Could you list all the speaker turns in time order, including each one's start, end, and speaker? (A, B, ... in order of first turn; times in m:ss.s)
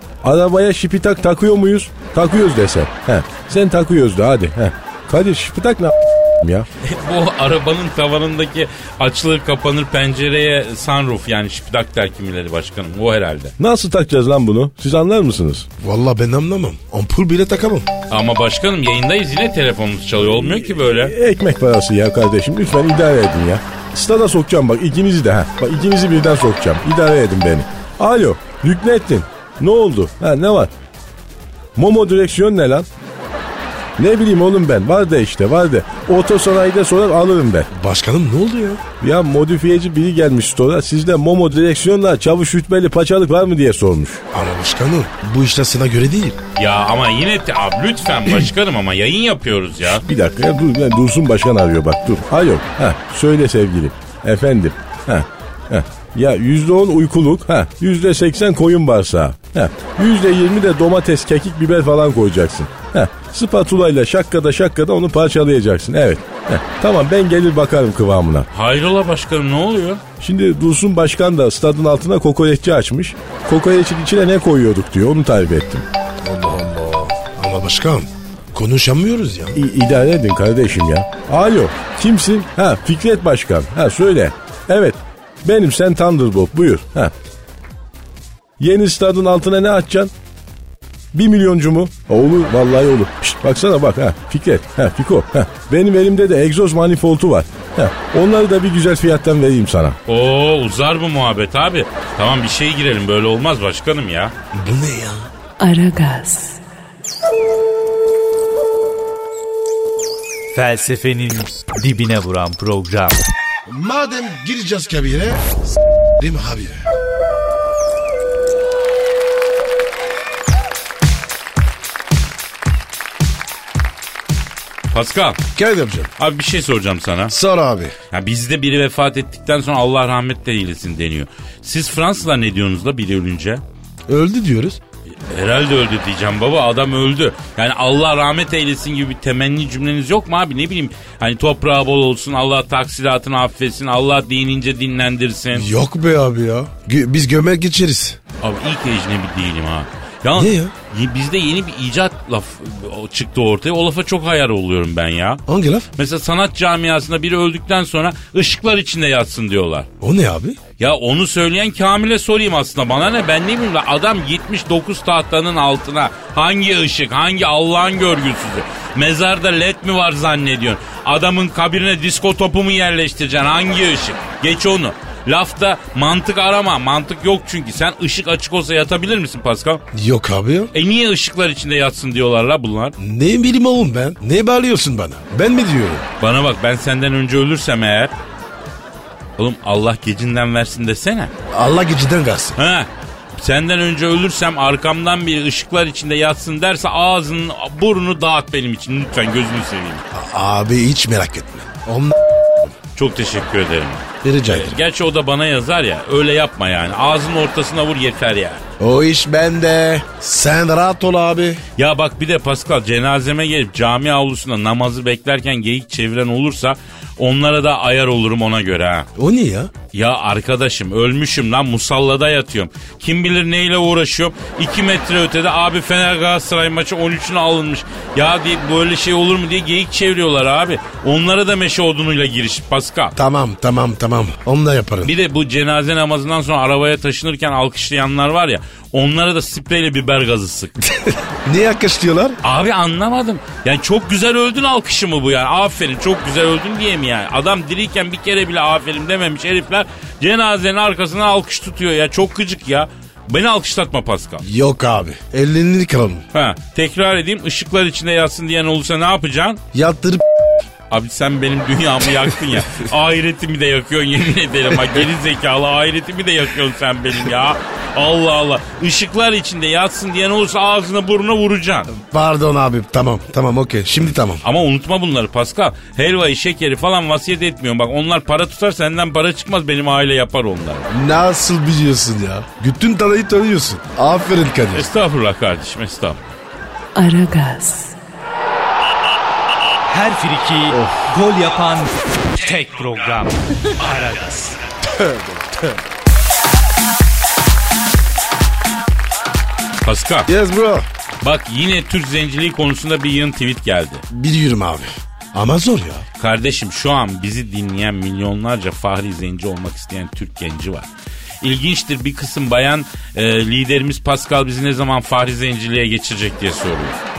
0:00.2-0:06.7 A
0:06.8-0:13.5 B
0:13.6-0:15.7 A
0:15.8-0:17.9 C
0:18.1-0:21.1 B
0:20.4-0:30.7 A
0:31.8-0:32.9 A
0:34.0-0:37.7 A
0:37.7-0:38.8 C
0:39.0-0:44.2 A
0:44.3-0:46.4 C
0:46.6-0:50.0 B
0:49.9-1:08.5 A
1:08.5-1:10.0 B
1:10.2-1:15.8 A
1:16.2-1:19.6 C
1:19.5-1:27.1 A
1:28.6-1:30.1 A
1:31.1-1:40.0 A
1:40.1-1:44.3 B
1:44.5-1:45.3 C
1:45.6-1:46.6 D
1:50.5-1:53.2 E
1:53.7-1:55.4 C
1:56.2-1:56.8 C
2:04.9-2:05.4 B
2:05.6-2:06.1 C
2:06.2-2:07.3 B
2:07.3-2:07.9 C
2:08.1-2:13.6 B
2:14.1-2:14.8 C
2:15.3-2:25.7 B
2:25.5-2:28.2 C
2:28.4-2:35.4 B
2:30.4-2:30.7 C
2:35.5-2:35.9 C
2:36.0-2:39.9 B
2:40.0-2:40.6 C
2:40.8-2:59.8 B
2:59.9-3:00.7 C
3:00.7-3:02.9 B
3:03.0-3:06.1 C
3:06.2-3:08.1 B
3:09.4-3:11.3 B
3:11.5-3:12.6 C
3:12.6-3:20.0 B
3:20.1-3:22.7 C
3:22.9-3:28.6 B
3:24.2-3:24.8 C
3:28.8-3:31.6 C
3:31.8-3:39.1 B
3:39.2-3:39.7 C
3:39.9-3:53.2 B
3:53.2-3:55.1 C
3:55.0-4:00.7 B
4:01.4-4:02.4 C
4:02.4-4:14.4 B
4:14.4-4:16.2 C
4:16.3-4:19.6 B
4:19.7-4:20.2 C
4:20.9-4:31.9 B
4:31.9-4:34.4 C
4:34.4-4:40.9 B
4:40.9-4:44.8 C
4:44.7-4:46.2 B
4:46.9-4:48.0 D
4:49.9-4:54.6 E
4:50.7-4:51.1 C
4:54.8-4:55.8 C
4:59.8-5:00.3 B
5:00.3-5:00.9 C
5:01.2-5:04.0 B
5:04.1-5:06.0 C
5:06.2-5:10.9 B
5:11.4-5:17.0 B